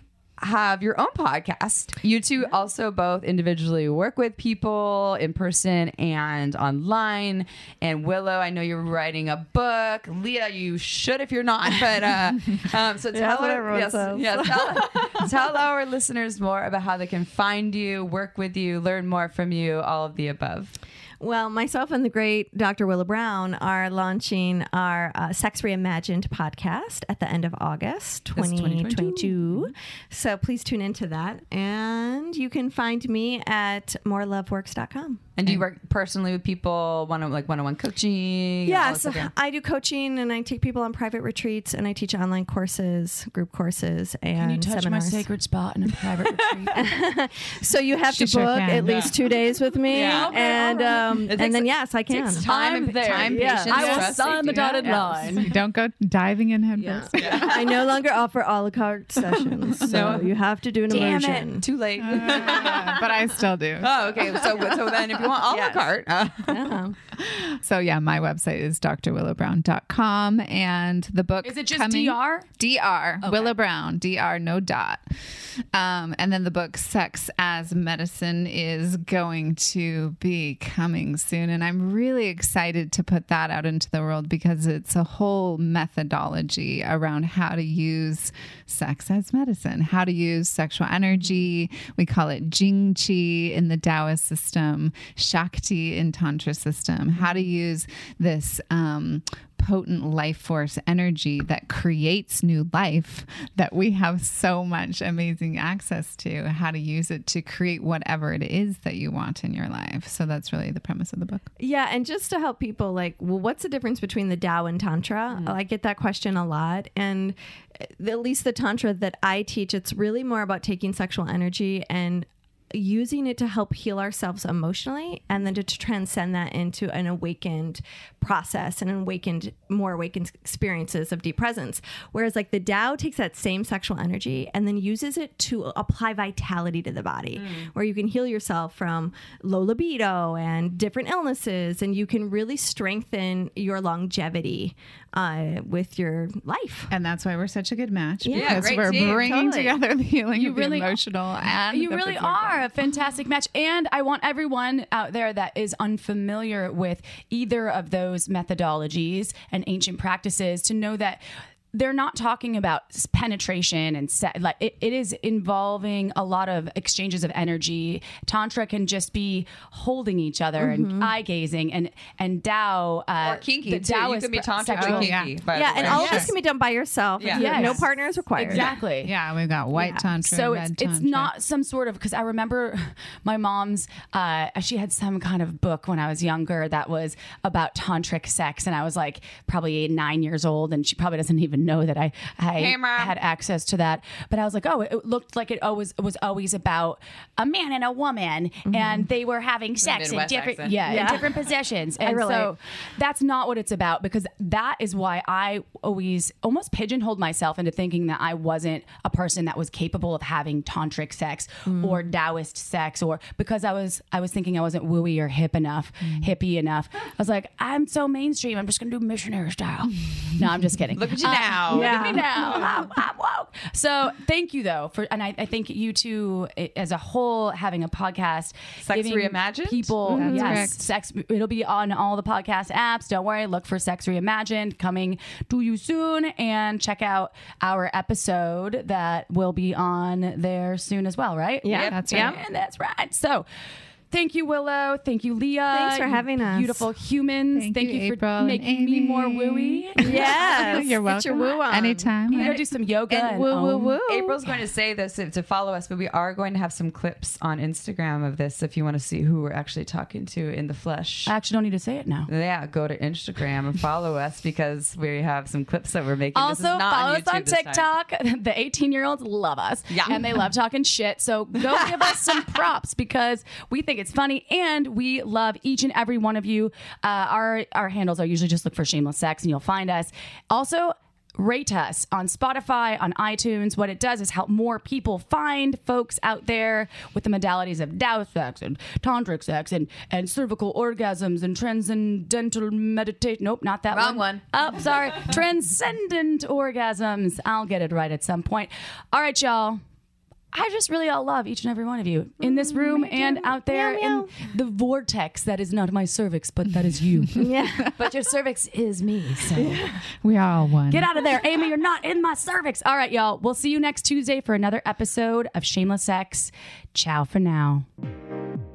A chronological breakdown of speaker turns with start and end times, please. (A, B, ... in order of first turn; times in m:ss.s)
0:00.4-0:20.8 A
0:13.1-0:15.3 B
0:21.2-0:35.3 B
0:28.4-0:29.7 A
0:35.4-0:39.3 A
0:38.6-0:45.2 B
0:44.4-0:46.9 C
0:46.5-0:46.8 D
0:46.7-0:52.5 B
0:48.1-0:49.2 D
0:48.8-0:49.1 A
0:49.9-0:50.4 A
0:50.0-0:51.3 C
0:51.3-0:55.3 A
0:52.3-0:55.5 C
0:53.1-0:54.0 B
0:53.7-0:57.9 D
0:56.8-1:01.6 B
0:57.2-0:57.5 A
0:59.3-1:00.2 D
0:59.8-1:00.3 A
1:00.9-1:03.0 A
1:02.0-1:04.5 D
1:02.2-1:03.3 B
1:03.8-1:06.8 A
1:04.2-1:07.0 B
1:07.2-1:51.5 D
1:11.4-1:12.5 C
1:13.2-1:13.5 B
1:51.6-2:26.9 B
2:17.4-2:17.7 A
2:26.9-2:32.7 D
2:28.2-2:29.8 B
2:28.3-2:29.3 A
2:30.3-2:31.0 C
2:31.7-2:41.2 C
2:41.7-2:56.3 C
2:50.6-2:51.1 B
2:53.2-2:56.3 A
2:54.8-2:56.3 D
2:55.5-2:58.8 B
2:57.2-2:57.8 A
2:57.3-2:59.1 C
2:57.5-2:57.9 D
2:58.5-3:01.3 D
2:59.8-3:00.1 B
3:00.2-4:03.5 C
3:12.6-3:13.2 A
3:18.7-3:19.1 B
3:19.8-3:20.8 A
3:20.8-3:21.4 B
3:22.0-3:22.5 B
3:31.7-3:32.0 B
3:41.0-3:42.2 A
3:41.7-3:42.6 B
3:48.8-3:50.6 A
3:50.1-3:50.9 D
3:50.2-3:50.6 B
4:01.6-4:02.4 B
4:01.7-4:02.4 A
4:01.9-4:02.3 D
4:04.1-4:10.9 C
4:05.7-4:06.9 B
4:07.5-4:14.6 D
4:10.0-4:12.5 B
4:12.3-4:14.0 C
4:14.1-4:21.3 A
4:21.3-4:22.3 C
4:22.3-4:27.9 A
4:26.4-4:59.8 C
4:29.9-4:30.2 A
4:53.9-4:54.4 A
5:00.5-5:07.5 C
5:02.4-5:04.5 B
5:07.4-5:07.9 B
5:07.9-5:09.8 A
5:09.6-5:10.0 B
5:10.2-5:11.1 D
5:10.9-5:17.9 C